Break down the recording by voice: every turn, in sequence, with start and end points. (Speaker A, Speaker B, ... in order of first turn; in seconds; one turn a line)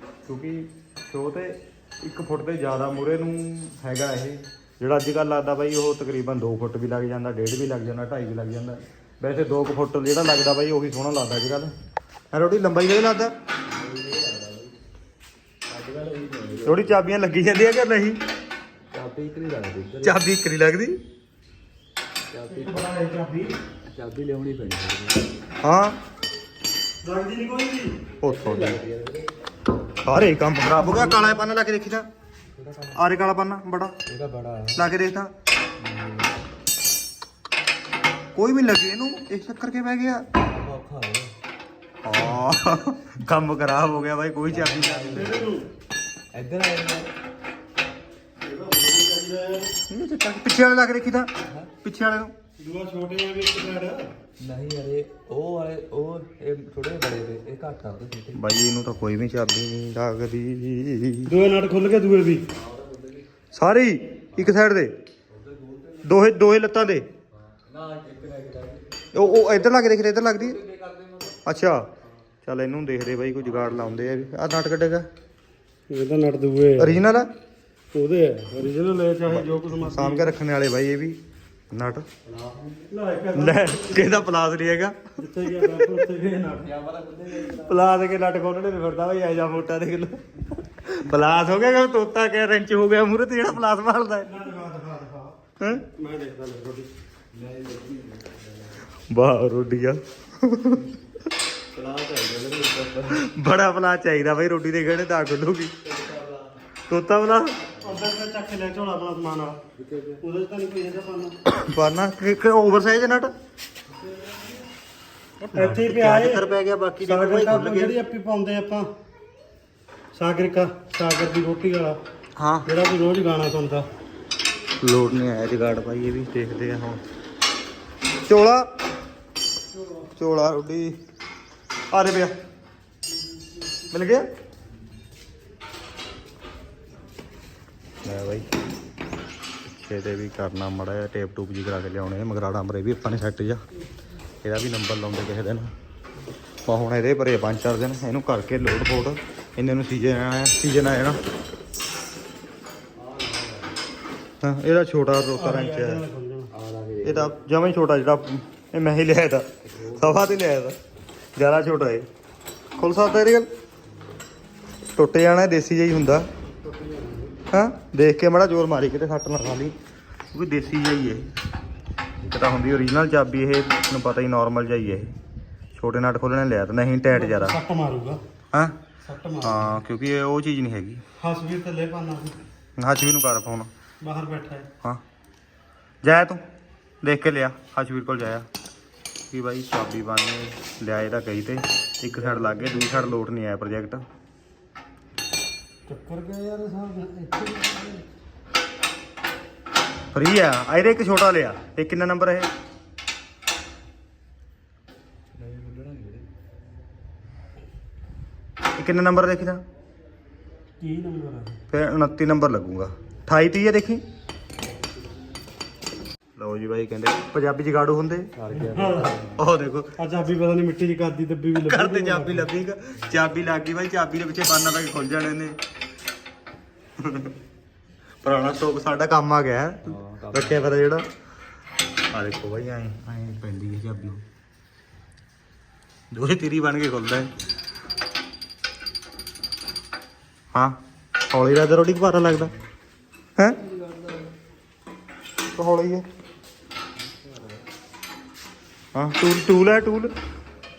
Speaker A: 0.2-11.7
Speaker A: 12.3-13.3
Speaker B: 13.7-14.8
Speaker B: 15.7-16.9
Speaker A: 16.6-18.2
Speaker B: 18.9-20.2
Speaker A: 20.0-21.0
Speaker B: 22.3-22.8
Speaker C: 22.4-23.5
Speaker B: 23.9-25.3
Speaker A: 25.6-26.0
Speaker C: 27.0-28.0
Speaker A: 28.2-28.8
Speaker B: 28.2-29.3
Speaker A: 30.0-32.1
Speaker B: 32.6-33.0
Speaker A: 32.9-34.0
Speaker B: 34.1-34.8
Speaker A: 34.8-35.3
Speaker B: 35.8-36.3
Speaker A: 38.4-40.3
Speaker B: 40.3-41.3
Speaker A: 42.0-45.4
Speaker B: 44.5-45.4
Speaker C: 45.1-45.7
Speaker B: 46.3-47.1
Speaker C: 48.4-49.7
Speaker A: 49.9-51.3
Speaker A: 51.8-52.3
Speaker C: 52.6-54.1
Speaker B: 54.4-58.4
Speaker A: 58.4-61.3
Speaker C: 61.2-62.5
Speaker B: 62.6-63.3
Speaker A: 63.5-64.9
Speaker B: 65.3-66.1
Speaker A: 66.0-67.1
Speaker B: 67.4-68.9
Speaker A: 69.1-70.6
Speaker B: 70.4-71.4
Speaker A: 71.4-71.9
Speaker A: 72.4-75.0
Speaker C: 75.9-77.0
Speaker A: 76.8-77.3
Speaker C: 77.9-80.3
Speaker A: 79.3-81.2
Speaker A: 81.7-82.1
Speaker B: 82.2-82.9
Speaker C: 82.9-84.1
Speaker A: 83.3-85.1
Speaker C: 85.2-86.8
Speaker B: 86.6-87.8
Speaker A: 87.4-94.3
Speaker C: 94.2-96.9
Speaker B: 97.3-98.8
Speaker A: 99.1-100.9
Speaker B: 101.7-103.2
Speaker A: 103.1-105.7
Speaker B: 105.9-106.5
Speaker A: 106.9-107.6
Speaker C: 107.8-109.6
Speaker B: 109.8-110.2
Speaker C: 110.2-111.4
Speaker A: 111.5-113.3
Speaker A: 115.4-118.0
Speaker C: 115.5-116.4
Speaker C: 117.0-118.9
Speaker C: 120.1-122.0
Speaker A: 122.4-122.7
Speaker C: 122.7-123.9
Speaker A: 124.8-127.0
Speaker A: 128.3-128.7
Speaker A: 130.2-131.0
Speaker A: 131.9-132.3
Speaker A: 133.9-134.2
Speaker A: 138.0-138.5
Speaker A: 139.8-143.6
Speaker A: 144.4-145.7
Speaker A: 146.6-151.2
Speaker B: 152.9-153.7
Speaker A: 154.4-156.0
Speaker C: 155.4-156.5
Speaker B: 156.5-157.3
Speaker A: 157.0-160.8
Speaker B: 159.7-160.4
Speaker A: 161.4-162.1
Speaker A: 162.8-163.5
Speaker A: 164.9-166.3
Speaker C: 166.6-167.4
Speaker A: 167.5-169.8
Speaker A: 170.3-171.3
Speaker A: 172.2-175.1
Speaker A: 175.8-177.6
Speaker C: 177.1-178.2
Speaker C: 179.0-179.8
Speaker A: 179.4-181.0
Speaker C: 181.2-182.4
Speaker A: 182.8-183.7
Speaker C: 184.0-184.7
Speaker A: 186.0-186.4
Speaker A: 187.0-188.4
Speaker A: 189.3-194.0
Speaker C: 195.9-198.1
Speaker A: 200.1-202.5
Speaker B: 205.4-206.2
Speaker A: 208.8-209.6
Speaker C: 210.8-211.6
Speaker A: 211.7-214.0
Speaker A: 216.4-218.3
Speaker B: 218.4-219.4
Speaker C: 218.5-219.1
Speaker A: 219.4-219.9
Speaker C: 220.0-222.5
Speaker A: 221.6-225.6
Speaker A: 227.0-227.3
Speaker A: 228.2-231.0
Speaker B: 229.9-230.7
Speaker A: 232.1-234.2
Speaker A: 236.1-237.3
Speaker A: 240.5-240.8
Speaker A: 241.3-242.5
Speaker B: 243.6-244.3
Speaker A: 245.5-246.0
Speaker B: 247.2-247.5
Speaker A: 248.9-250.1